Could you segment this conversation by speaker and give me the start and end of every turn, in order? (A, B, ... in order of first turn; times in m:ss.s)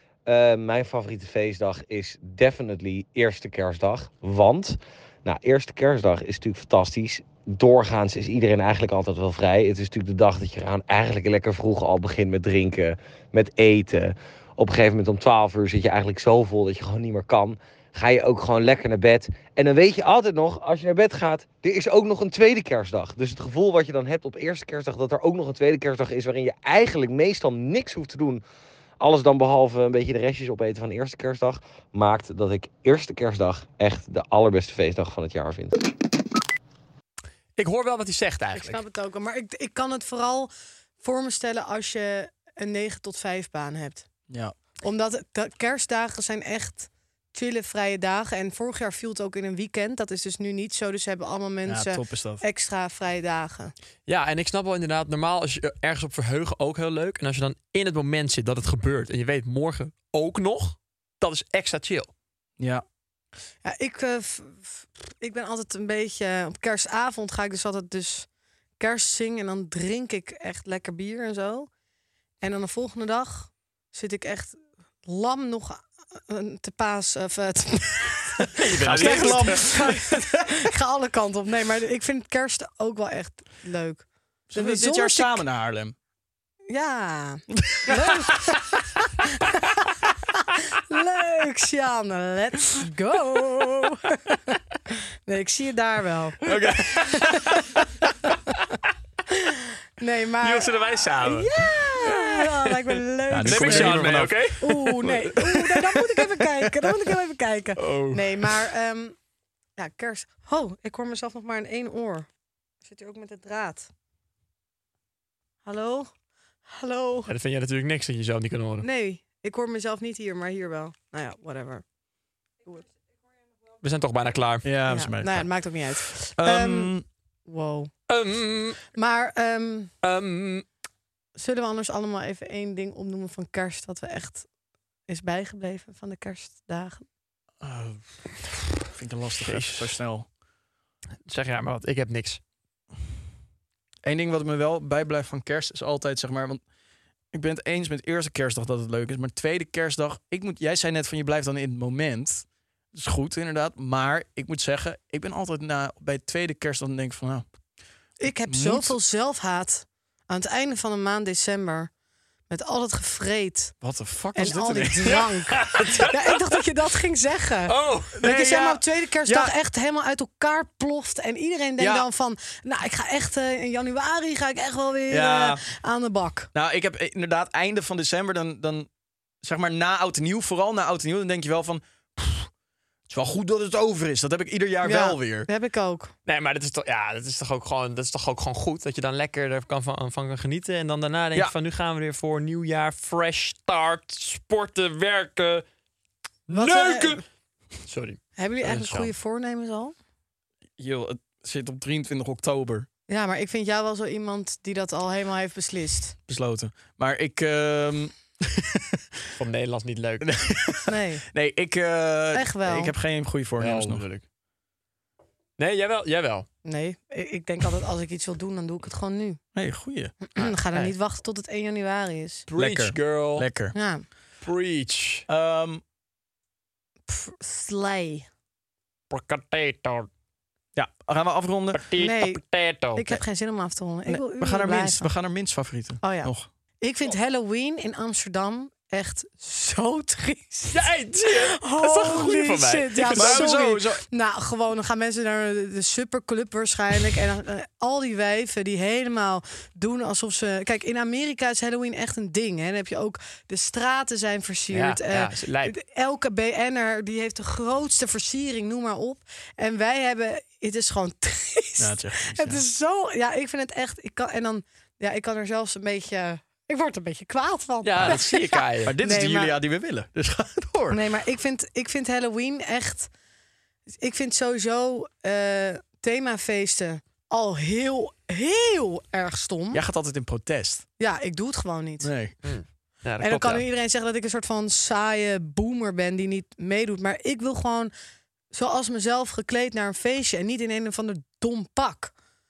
0:00.2-0:28.4 A
0:29.0-0:35.8 A
0:37.6-0:38.8 B
0:38.5-0:44.1 C
0:44.3-0:44.5 D
0:44.8-0:53.7 C
0:51.6-0:52.4 D
0:54.0-1:02.1 B
1:02.6-1:02.8 D
1:03.6-1:08.3 C
1:08.8-1:11.7 C
1:12.4-1:25.4 C
1:18.6-1:19.7 B
1:18.8-1:20.3 D
1:24.5-1:25.9 D
1:26.7-1:34.4 C
1:35.3-1:37.6 C
1:36.5-1:37.6 B
1:36.5-1:37.0 D
1:39.4-1:49.2 C
1:40.4-1:46.0 B
1:43.3-1:44.6 D
1:47.8-1:48.2 B
1:49.8-1:52.3 C
1:52.8-1:53.9 C
1:55.6-1:56.1 C
1:56.6-1:57.3 C
1:57.3-1:58.9 B
1:58.8-2:01.8 C
2:03.8-2:04.7 B
2:04.6-2:07.0 D
2:04.9-2:06.9 C
2:07.5-2:07.9 C
2:08.1-2:08.8 B
2:08.9-2:09.9 C
2:10.0-2:10.6 B
2:11.4-2:14.5 C
2:15.1-2:17.0 C
2:17.6-2:18.1 D
2:18.8-2:20.3 D
2:19.4-2:19.9 B
2:21.2-2:22.4 B
2:24.0-2:26.6 D
2:27.3-2:37.4 D
2:38.2-2:41.9 C
2:38.5-2:38.9 D
2:42.5-2:43.7 C
2:43.8-2:45.2 D
2:44.3-2:56.5 C
2:45.1-2:46.4 B
2:47.7-2:48.3 B
2:48.2-2:49.5 D
2:51.8-2:52.0 D
2:55.1-2:55.6 D
2:56.5-2:58.9 D
2:59.4-3:02.5 D
3:03.1-3:05.5 D
3:04.8-3:06.1 C
3:06.2-3:15.6 B
3:16.5-3:17.2 C
3:16.5-3:16.8 B
3:16.6-3:17.2 D
3:17.8-3:19.1 B
3:18.4-3:19.9 C
3:20.8-3:22.9 D
3:23.1-3:26.2 C
3:26.3-3:28.9 D
3:29.4-3:30.3 B
3:30.2-3:34.0 D
3:30.9-3:31.2 C
3:32.3-3:32.9 C
3:33.6-3:34.2 B
3:35.6-3:36.5 B
3:36.6-3:39.4 C
3:39.5-3:40.2 D
3:40.3-3:42.5 C
3:40.4-3:40.9 B
3:42.5-3:43.5 B
3:42.6-3:43.7 D
3:43.7-3:44.0 C
3:44.4-3:45.2 B
3:45.3-3:45.8 D
3:47.1-3:48.3 C
3:49.1-3:50.1 B
3:50.7-3:51.8 D
3:51.7-3:53.2 B
3:52.0-3:55.1 C
3:54.1-3:56.5 D
3:56.0-4:29.5 C
4:00.7-4:03.5 B
4:03.1-4:04.0 D
4:14.7-4:15.8 B
4:21.8-4:22.6 D
4:27.8-4:29.0 B
4:28.0-4:28.3 D
4:28.8-4:31.0 D
4:30.9-4:33.1 C
4:34.0-4:39.8 C
4:39.7-4:40.8 D
4:41.0-4:42.1 C
4:42.0-4:42.4 D
4:42.4-4:43.6 B
4:43.2-4:47.9 C
4:48.5-4:52.1 C